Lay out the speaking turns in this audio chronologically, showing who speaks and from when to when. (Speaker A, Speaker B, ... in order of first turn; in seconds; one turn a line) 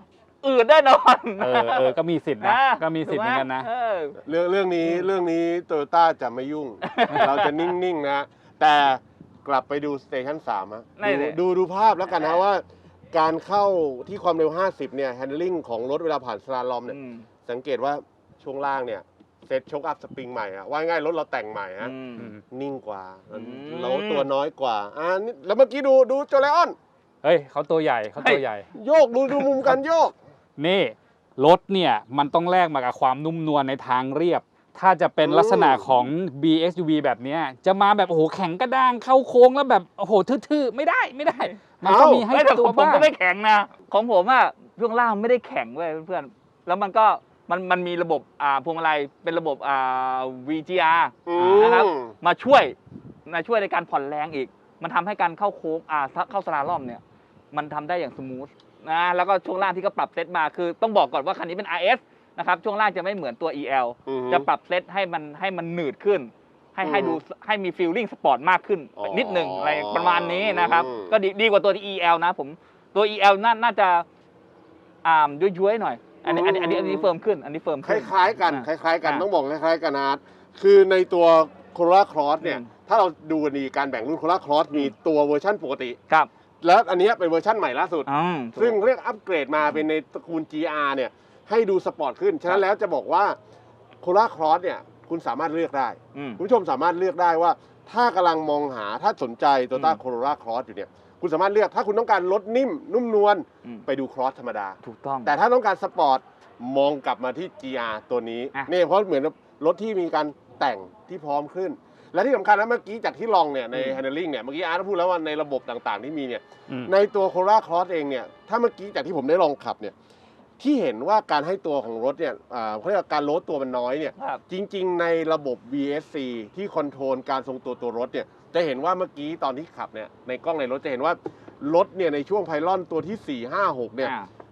Speaker A: 0.4-4.2
Speaker B: 1.4-3.7
Speaker C: 4.3-21.9
Speaker A: 6.8-7.6
Speaker A: 11.0-11.4
Speaker A: 12.1-12.4
Speaker A: 16.9-17.3
Speaker A: 21.8-22.3
Speaker C: 22.5-26.8
Speaker A: 23.3-24.3
Speaker B: 27.2-28.6
Speaker C: 28.8-30.1
Speaker B: 30.6-43.1
Speaker C: 35.2-36.0
Speaker C: 41.8-42.2
Speaker A: 42.3-52.8
Speaker C: 51.3-52.1
Speaker A: 53.3-57.0
Speaker A: 57.5-74.0
Speaker C: 64.1-64.5
Speaker C: 66.8-67.2
Speaker C: 69.0-71.1
Speaker A: 75.0-79.3
Speaker C: 76.3-77.1
Speaker C: 77.8-86.0
Speaker A: 82.4-82.7
Speaker C: 86.6-93.4
Speaker A: 88.1-88.8
Speaker C: 94.0-119.9
Speaker A: 96.2-96.4
Speaker A: 104.8-105.3
Speaker A: 113.7-114.0
Speaker C: 120.6-134.1
Speaker A: 134.0-134.3